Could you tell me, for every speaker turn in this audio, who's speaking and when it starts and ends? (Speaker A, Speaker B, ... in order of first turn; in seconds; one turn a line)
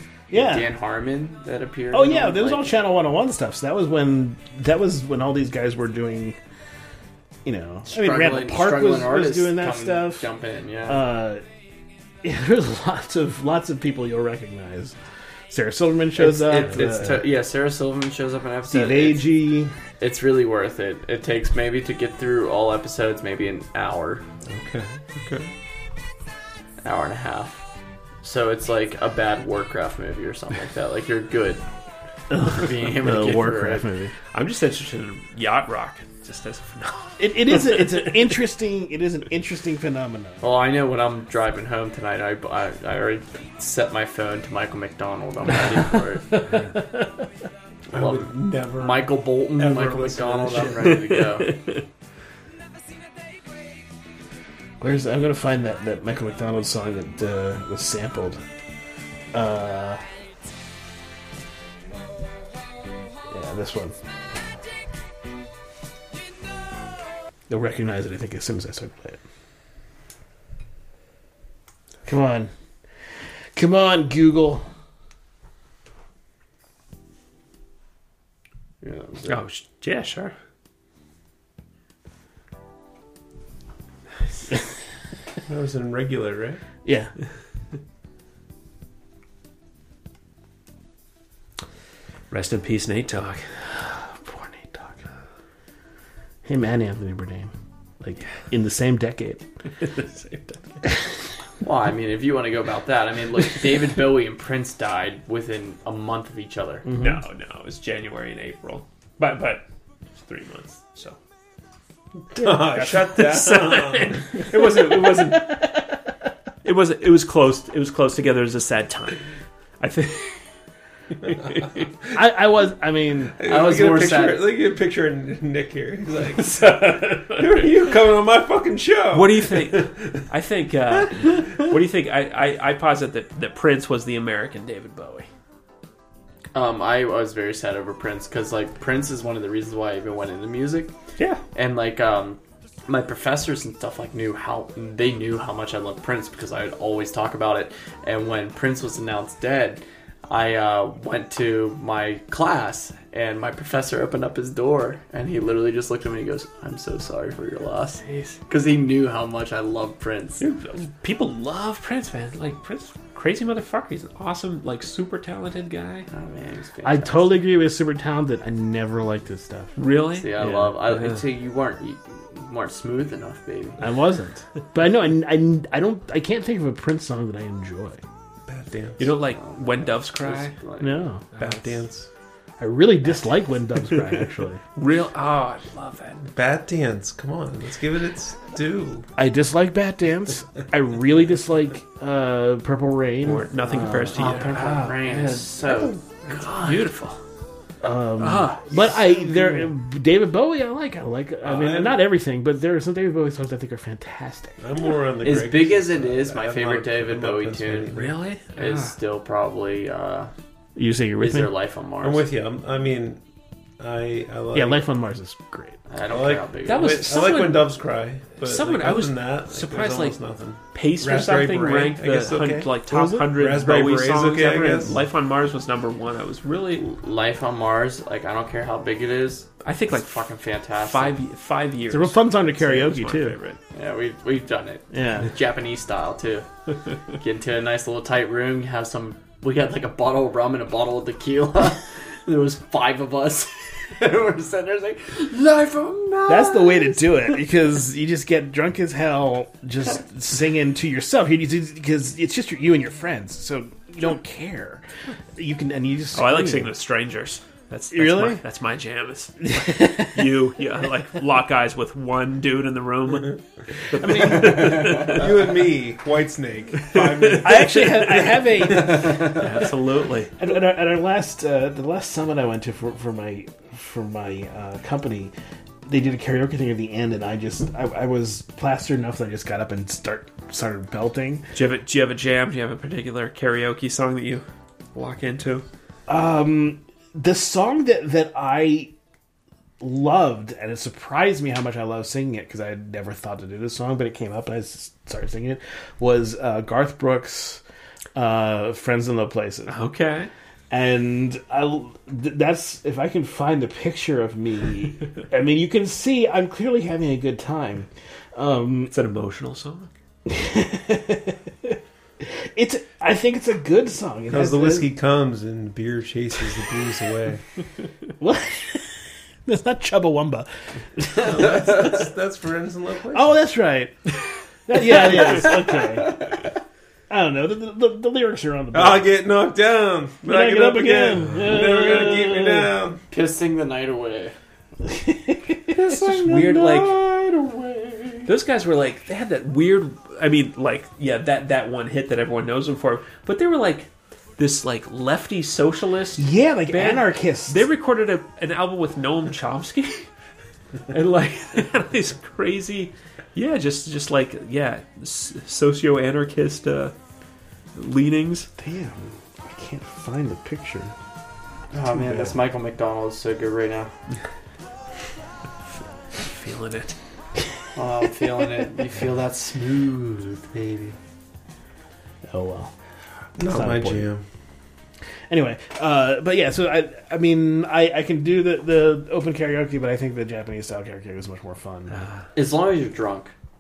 Speaker A: 0.3-0.7
Speaker B: 0.3-2.8
Speaker A: 1.9-6.4
Speaker A: 7.5-10.3
Speaker B: 7.9-11.1
Speaker A: 10.9-11.4
Speaker A: 12.2-15.0
Speaker A: 15.5-17.2
Speaker B: 16.2-19.3
Speaker C: 16.5-17.2
Speaker A: 18.7-19.7
Speaker B: 20.0-24.2
Speaker C: 24.5-25.5
Speaker B: 26.8-27.6
Speaker B: 28.2-31.6
Speaker A: 32.3-34.1
Speaker B: 32.4-33.9
Speaker D: 34.3-38.0
Speaker A: 37.2-40.4
Speaker B: 40.4-46.4
Speaker A: 46.4-47.3
Speaker C: 47.9-50.9
Speaker B: 47.9-51.6
Speaker D: 50.8-51.8
Speaker A: 54.8-58.4
Speaker A: 59.3-60.0
Speaker A: 63.3-64.0
Speaker A: 67.5-69.2
Speaker A: 72.0-72.5
Speaker A: 73.5-74.7
Speaker B: 78.8-79.4
Speaker D: 79.3-80.3
Speaker C: 85.5-86.6
Speaker A: 86.8-87.1
Speaker D: 92.3-93.5
Speaker A: 93.8-95.0
Speaker A: 96.5-99.5
Speaker D: 99.8-100.8
Speaker B: 101.6-106.9
Speaker A: 106.8-107.2
Speaker D: 107.0-109.7
Speaker D: 110.2-111.2
Speaker C: 112.3-114.4
Speaker A: 112.4-113.2
Speaker D: 112.5-116.0
Speaker A: 114.5-115.8
Speaker D: 116.6-120.4
Speaker D: 121.2-121.9
Speaker A: 122.1-123.3
Speaker C: 123.4-130.2
Speaker B: 123.4-124.5
Speaker D: 126.4-127.9
Speaker D: 129.1-135.3
Speaker B: 136.5-140.9
Speaker B: 141.6-160.4
Speaker D: 158.1-158.4
Speaker D: 160.4-166.1
Speaker B: 166.1-167.3
Speaker A: 166.8-169.8
Speaker D: 169.8-171.2
Speaker B: 170.2-173.8
Speaker A: 170.4-170.7
Speaker A: 173.8-178.0
Speaker C: 178.5-179.1
Speaker D: 179.0-180.6
Speaker B: 179.3-181.1
Speaker A: 180.8-181.2
Speaker D: 181.3-181.8
Speaker C: 181.4-182.1
Speaker A: 182.6-184.6
Speaker D: 184.8-186.3
Speaker C: 186.3-189.1
Speaker A: 189.2-194.5
Speaker D: 193.2-197.2
Speaker B: 194.1-196.8
Speaker A: 197.8-204.7
Speaker D: 198.2-198.7
Speaker C: 201.4-202.0
Speaker C: 204.6-208.2
Speaker B: 205.2-207.9
Speaker D: 207.9-208.9
Speaker B: 208.6-210.3
Speaker A: 210.8-211.5
Speaker B: 211.2-212.3
Speaker C: 212.0-213.2
Speaker C: 213.8-214.8
Speaker A: 214.5-215.8
Speaker B: 215.9-217.2
Speaker C: 216.1-225.0
Speaker D: 216.7-217.8
Speaker D: 218.4-220.2
Speaker D: 220.7-226.9
Speaker A: 222.8-223.3
Speaker B: 226.8-231.2
Speaker D: 229.6-233.6
Speaker A: 231.9-233.4
Speaker B: 233.7-236.5
Speaker A: 234.9-235.3
Speaker B: 237.1-247.4
Speaker A: 246.3-254.8
Speaker A: 255.4-256.7
Speaker D: 256.1-265.3
Speaker A: 257.9-258.4
Speaker A: 259.4-260.4
Speaker A: 264.0-264.9
Speaker C: 265.0-268.4
Speaker D: 266.9-267.9
Speaker A: 267.4-269.7
Speaker D: 268.8-270.4
Speaker A: 270.4-275.3
Speaker A: 275.9-281.4
Speaker D: 281.5-285.7
Speaker A: 286.1-288.9
Speaker A: 289.8-297.6
Speaker A: 298.1-299.7
Speaker D: 299.7-300.3
Speaker A: 300.7-308.9
Speaker D: 308.9-309.9
Speaker A: 310.3-314.9
Speaker C: 314.3-317.4
Speaker A: 318.2-321.6
Speaker C: 321.1-323.4
Speaker A: 323.1-324.1
Speaker A: 324.7-326.3
Speaker B: 324.9-326.4
Speaker A: 327.1-329.1
Speaker C: 328.7-333.0
Speaker A: 330.3-332.7
Speaker B: 333.1-334.4
Speaker A: 334.9-335.8
Speaker B: 335.7-338.3
Speaker D: 335.9-337.0
Speaker D: 338.3-350.1
Speaker A: 346.2-347.7
Speaker D: 350.9-356.9
Speaker D: 357.8-358.5
Speaker A: 358.6-360.9
Speaker B: 361.7-363.9
Speaker A: 361.9-362.3
Speaker D: 366.2-367.0
Speaker B: 367.8-370.9
Speaker A: 372.2-372.8
Speaker C: 373.4-374.2
Speaker A: 373.4-374.1
Speaker A: 375.3-382.1
Speaker D: 382.0-382.2
Speaker B: 382.3-383.3